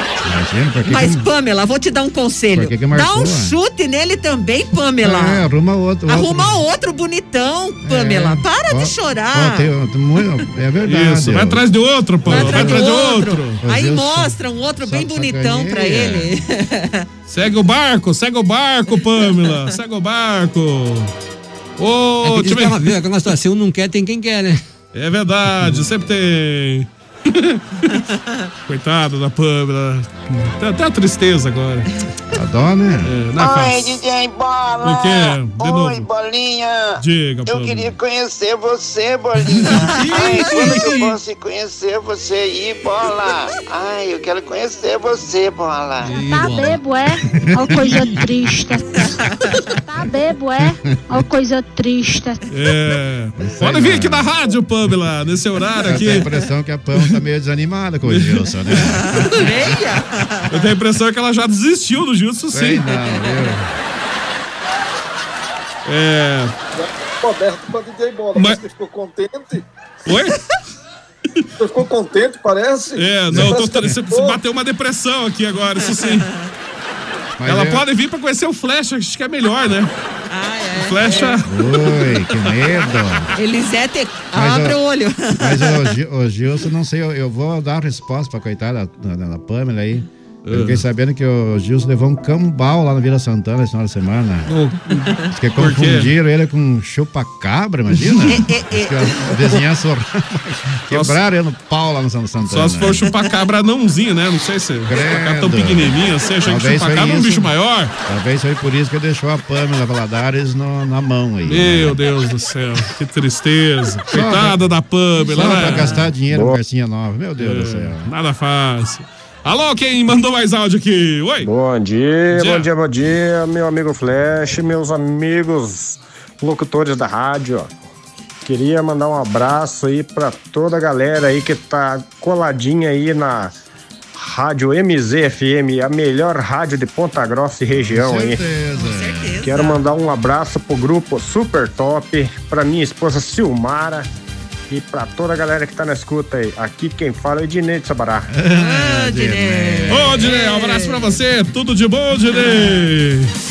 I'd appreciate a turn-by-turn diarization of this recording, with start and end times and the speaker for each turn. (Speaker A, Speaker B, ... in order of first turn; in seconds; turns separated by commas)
Speaker A: 0.2-1.3, Speaker B: 0.8-5.5, Speaker A: 2.5-3.6, Speaker A: 5.0-6.7, Speaker B: 6.1-9.7, Speaker A: 7.8-11.7, Speaker C: 10.8-13.6, Speaker A: 12.2-12.9, Speaker B: 12.3-17.1, Speaker A: 13.6-16.4, Speaker C: 17.3-21.1, Speaker B: 19.2-19.6, Speaker C: 21.8-22.9, Speaker D: 22.2-24.6, Speaker C: 24.9-28.0, Speaker C: 28.7-31.9, Speaker A: 32.3-33.1, Speaker C: 33.0-34.0, Speaker E: 33.4-46.2, Speaker C: 34.8-36.1, Speaker C: 37.0-37.9, Speaker B: 39.8-40.8, Speaker D: 40.0-40.7, Speaker D: 46.0-46.8, Speaker F: 46.2-49.1, Speaker A: 47.3-48.1, Speaker B: 49.2-49.5, Speaker F: 49.9-52.4, Speaker A: 50.9-51.2, Speaker C: 52.5-56.3, Speaker A: 53.4-54.4, Speaker A: 55.8-59.8, Speaker C: 58.0-58.5, Speaker B: 58.8-60.5, Speaker C: 60.5-62.9, Speaker A: 62.5-63.7, Speaker B: 63.0-63.6, Speaker C: 65.9-66.5, Speaker G: 66.8-69.7, Speaker C: 68.3-68.6, Speaker C: 70.1-70.4, Speaker G: 71.6-74.4, Speaker C: 73.0-76.3, Speaker A: 73.3-73.6, Speaker B: 75.8-76.5, Speaker A: 77.4-77.8, Speaker C: 77.4-79.9, Speaker B: 80.3-81.5, Speaker C: 80.8-82.6, Speaker A: 81.4-83.3, Speaker B: 83.4-86.0, Speaker A: 84.3-84.8, Speaker A: 85.3-94.5, Speaker C: 90.4-90.8, Speaker C: 94.5-96.1, Speaker A: 95.3-103.1, Speaker B: 97.9-99.6, Speaker C: 100.9-101.2, Speaker C: 102.5-107.9, Speaker A: 104.9-107.5, Speaker A: 108.1-112.0, Speaker C: 111.5-116.0, Speaker A: 114.1-114.6, Speaker A: 115.2-118.1, Speaker H: 116.3-116.6, Speaker C: 117.4-121.5, Speaker H: 121.4-127.7, Speaker C: 122.3-122.7, Speaker H: 128.4-133.5, Speaker H: 134.2-138.4, Speaker A: 137.7-139.6, Speaker B: 138.7-139.9, Speaker H: 139.4-144.1, Speaker H: 144.7-148.3, Speaker A: 148.3-150.3, Speaker B: 148.5-151.2, Speaker C: 149.9-153.3, Speaker B: 152.3-152.8